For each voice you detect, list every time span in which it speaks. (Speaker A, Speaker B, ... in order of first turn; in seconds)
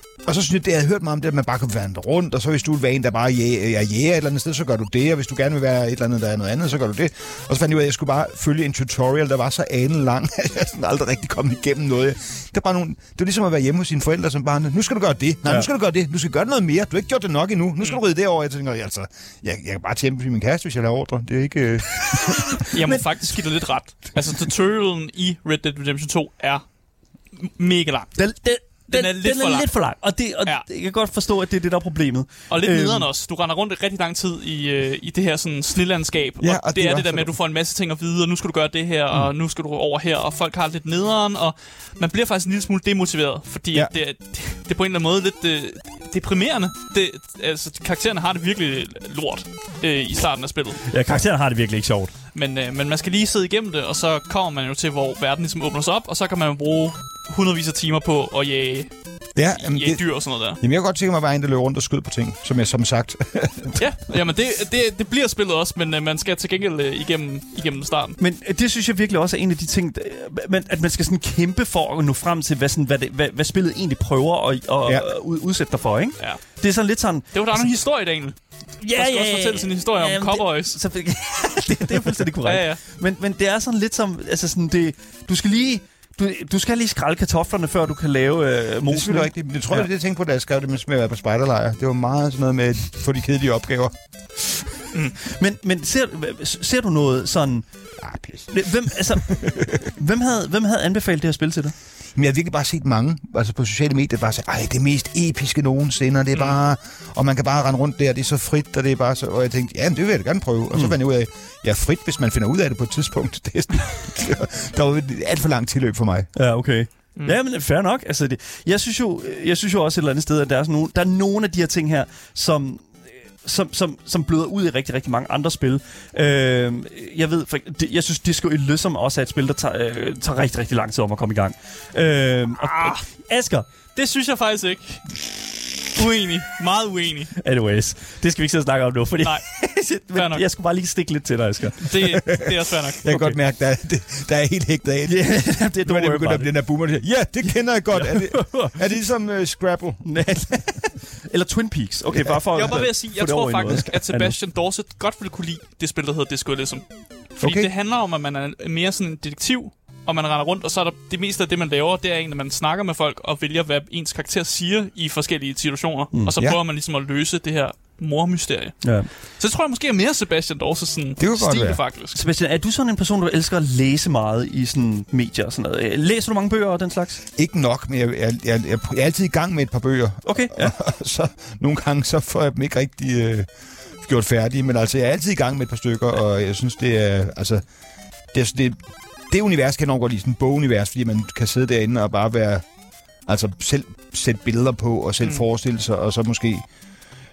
Speaker A: 0.2-22.6, 36.4-37.3, 59.4-63.8, 88.9-93.9, 98.0-98.5, 99.3-99.6, 102.2-116.3, 142.0-150.8, 152.1-152.9, 157.4-157.7, 171.2-171.8, 177.4-183.5, 184.0-187.7, 188.3-196.7
Speaker B: 15.4-15.7, 22.9-23.3, 28.2-33.1, 50.9-52.1, 68.2-77.4, 78.8-89.9, 95.2-97.7, 98.5-101.7, 116.4-133.7, 137.4-141.9, 143.1-143.4, 145.1-146.6, 147.9-149.0, 150.0-154.4, 168.8-169.1, 172.1-177.2, 180.2-180.8
Speaker C: 22.6-26.7, 27.3-28.2, 28.9-29.8, 32.5-50.8, 52.3-60.6, 63.8-68.2, 76.2-76.6, 77.3-80.8, 82.5-82.8, 132.6-133.0, 133.9-135.3, 135.9-137.3, 139.2-140.4, 141.8-143.1, 152.5-172.2